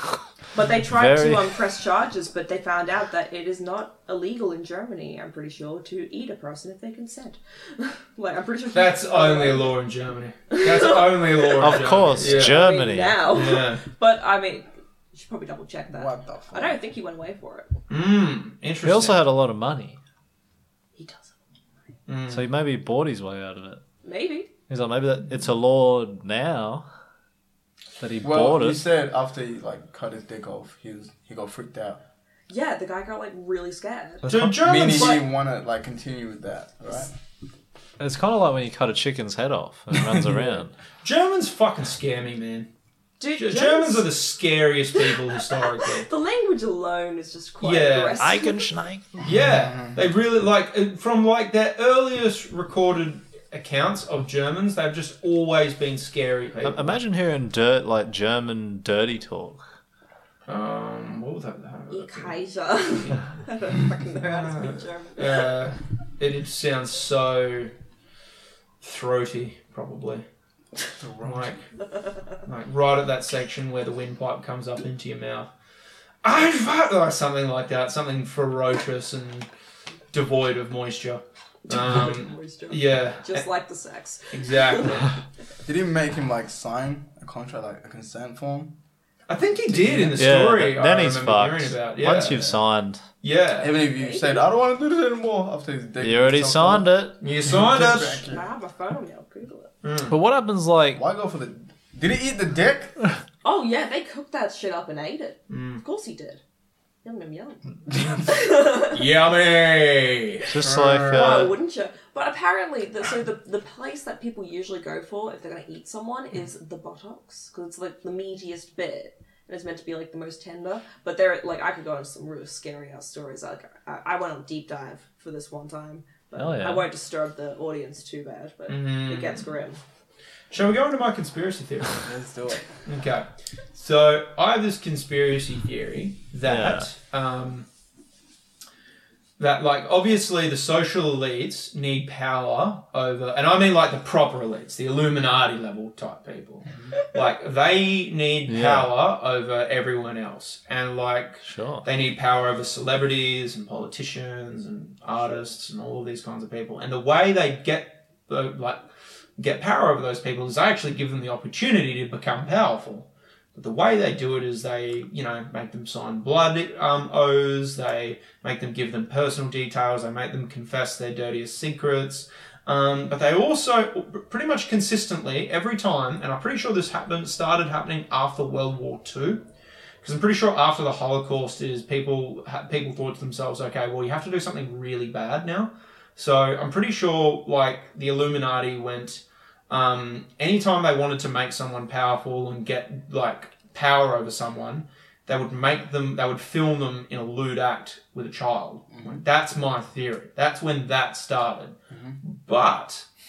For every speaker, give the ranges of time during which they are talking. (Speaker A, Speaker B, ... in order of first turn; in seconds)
Speaker A: 0.5-9.8, 10.5-17.7, 21.0-21.3, 24.0-24.5, 32.5-34.2, 34.9-35.2, 43.2-44.1, 45.0-48.7, 61.9-65.5, 81.7-85.1, 93.9-94.5, 98.2-99.7, 103.4-106.4, 107.0-109.1, 111.1-129.8
Speaker B: 0.9-1.6, 11.6-13.3, 18.8-20.0, 22.3-23.8, 24.7-26.9, 28.0-28.9, 34.2-34.6, 38.0-40.8, 48.2-49.3, 56.6-59.6, 90.0-93.0, 96.0-97.2, 100.1-101.0, 110.5-111.6, 126.4-126.9, 136.4-136.9, 148.5-148.9, 151.4-151.9
Speaker C: 8.7-12.6, 13.3-13.8, 17.9-19.2, 22.1-22.4, 34.2-35.2, 41.0-42.7, 43.4-46.1, 47.6-48.2, 49.2-57.0, 60.5-62.4, 62.9-63.2, 64.2-67.7, 68.8-70.3, 71.2-71.6, 72.5-75.5, 76.2-79.5, 80.1-83.5, 84.3-85.1, 89.3-92.5, 93.2-93.7, 97.2-98.2, 99.8-100.2, 105.5-105.8, 108.9-110.5, 128.7-129.5, 130.5-132.0, 132.9-137.7, 139.4-158.8, 159.4-179.4, 180.0-203.1
Speaker D: 15.9-16.8, 28.2-32.0, 34.6-37.1, 39.9-40.6, 49.4-50.0, 71.0-71.5, 85.7-88.8, 93.6-98.5, 100.9-103.0, 110.5-111.5, 132.0-132.6, 198.9-199.2, 201.9-202.2